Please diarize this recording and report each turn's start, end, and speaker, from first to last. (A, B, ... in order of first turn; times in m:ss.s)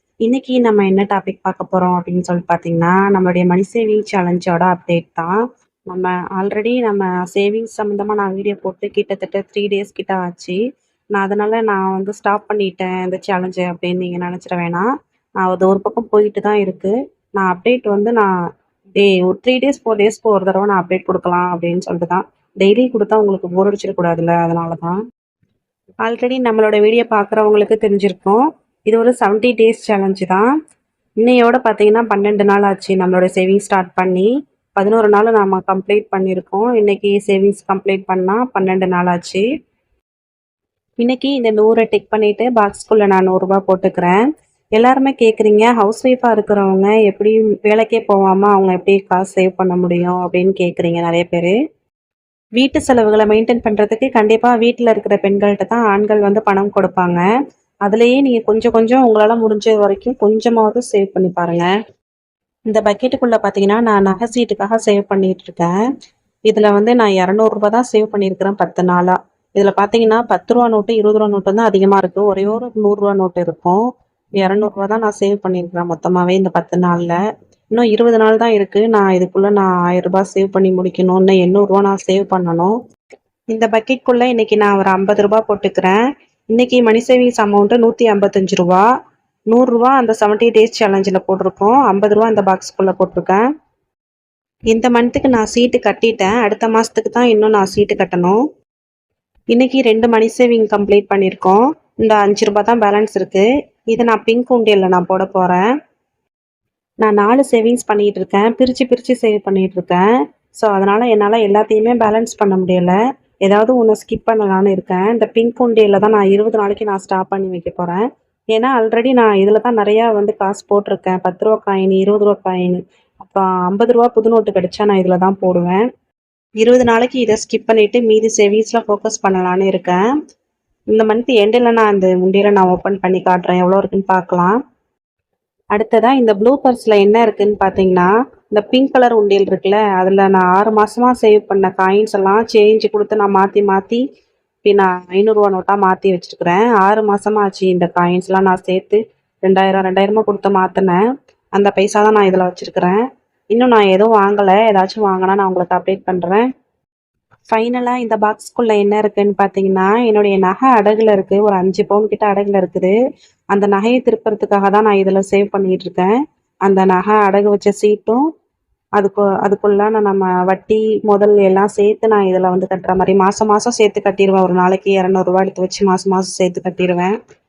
0:00.2-0:05.4 A
0:05.9-0:10.6 A
0:11.1-0:14.9 A
0:15.4-0:18.3 A
0:19.0-0:25.0 A
0:26.0-0:30.4 A
0:31.2-0:39.4 A
0:41.0-0:44.2 A
0:44.8-0:51.5 A
0:52.6-0:57.2 A
0:57.8-1:01.7 A
1:02.7-1:05.7 A
1:06.5-1:13.8 A
1:14.4-1:17.2 A
1:17.7-1:22.7 A
1:23.5-1:26.0 A
1:26.5-1:28.8 A
1:29.5-1:33.4 A
1:34.7-1:38.4 A
1:39.5-1:45.7 A
1:47.0-1:50.1 A
1:50.6-2:05.8 A
2:06.6-2:10.0 A
2:10.9-2:14.6 A
2:15.7-2:24.0 A
2:24.6-2:31.0 A
2:31.6-2:33.0 A
2:33.5-2:36.4 A
2:37.5-2:42.9 A
2:43.5-2:46.1 A
2:46.6-2:48.2 A
2:49.0-2:57.1 A